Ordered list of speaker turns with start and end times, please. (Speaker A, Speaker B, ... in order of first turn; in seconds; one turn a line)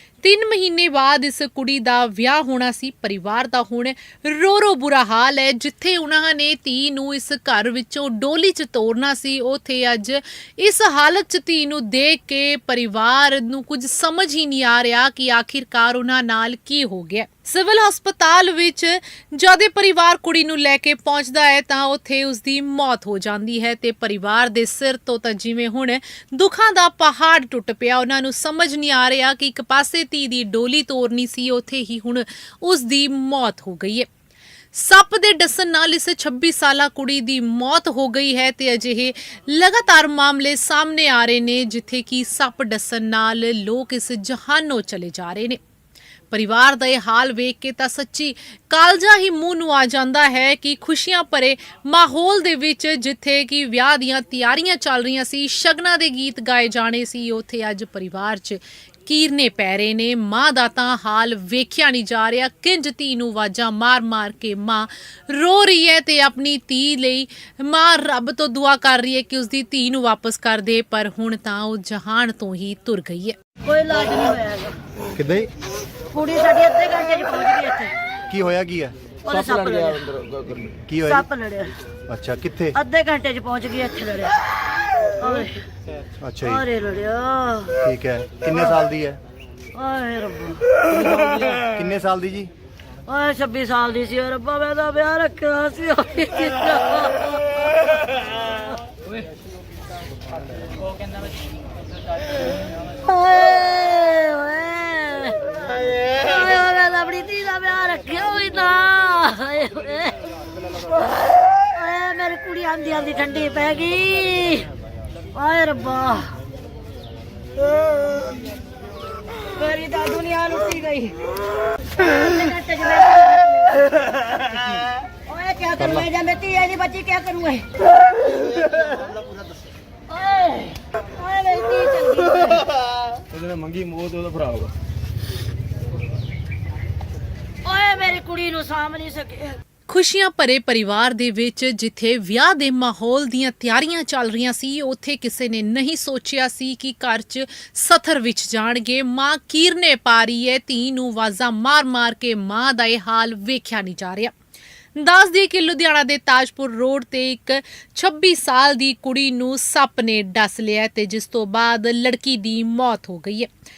Speaker A: 0.2-34.1
Speaker A: 34.7-45.6
Speaker A: 46.3-73.3
Speaker B: 73.6-74.8
Speaker C: 75.2-75.5
Speaker B: 76.1-77.9
Speaker C: 78.3-79.0
Speaker B: 79.2-80.1
Speaker D: 79.5-80.8
Speaker C: 80.9-81.2
Speaker B: 81.0-81.7
Speaker C: 82.1-82.7
Speaker B: 82.7-84.4
Speaker B: 85.2-85.7
Speaker C: 86.2-86.6
Speaker B: 86.4-87.9
Speaker C: 87.8-89.2
Speaker B: 88.5-88.8
Speaker B: 89.7-90.8
Speaker D: 90.9-91.8
Speaker C: 91.7-92.5
Speaker B: 93.1-99.2
Speaker B: 101.0-101.7
Speaker B: 102.3-110.2
Speaker B: 111.1-114.7
Speaker B: 115.3-116.4
Speaker B: 119.5-121.2
Speaker B: 122.0-123.9
Speaker B: 125.3-127.8
Speaker B: 128.7-129.6
Speaker B: 130.1-132.7
Speaker D: 133.3-134.7
Speaker B: 137.6-139.6
Speaker A: 139.9-154.3
Speaker A: 155.0-163.5